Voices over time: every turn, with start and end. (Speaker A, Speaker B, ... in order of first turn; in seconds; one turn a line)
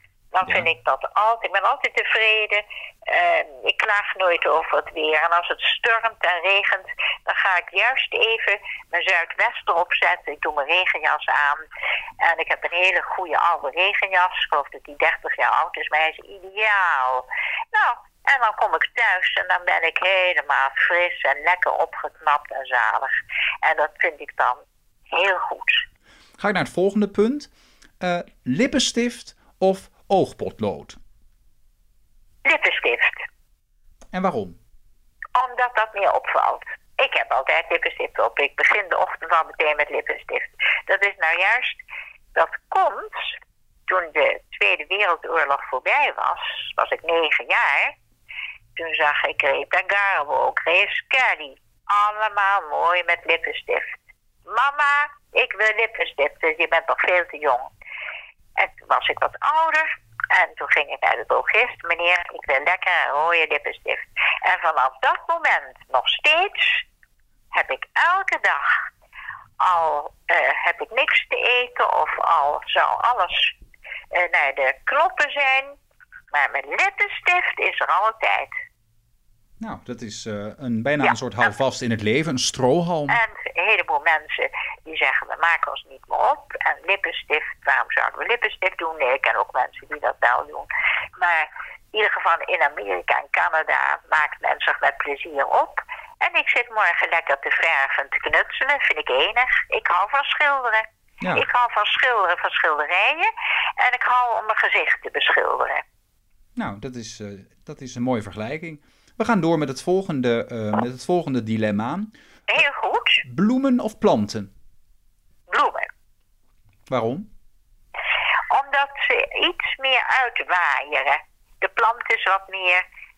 Speaker A: 0.3-11.6
Speaker B: 0.4-0.7
Speaker A: 12.2-25.9
Speaker B: 26.4-31.0
Speaker A: 32.5-33.2
Speaker B: 34.1-34.6
Speaker A: 35.4-41.8
Speaker A: 42.3-48.0
Speaker A: 48.8-57.7
Speaker A: 58.6-66.9
Speaker A: 67.5-68.8
Speaker A: 69.6-73.6
Speaker A: 74.1-75.8
Speaker A: 76.3-78.6
Speaker B: 79.6-83.2
Speaker A: 83.1-105.8
Speaker B: 101.2-101.5
Speaker B: 106.6-112.6
Speaker A: 112.5-113.2
Speaker B: 113.3-114.5
Speaker A: 115.5-115.9
Speaker B: 116.9-117.3
Speaker A: 118.5-122.8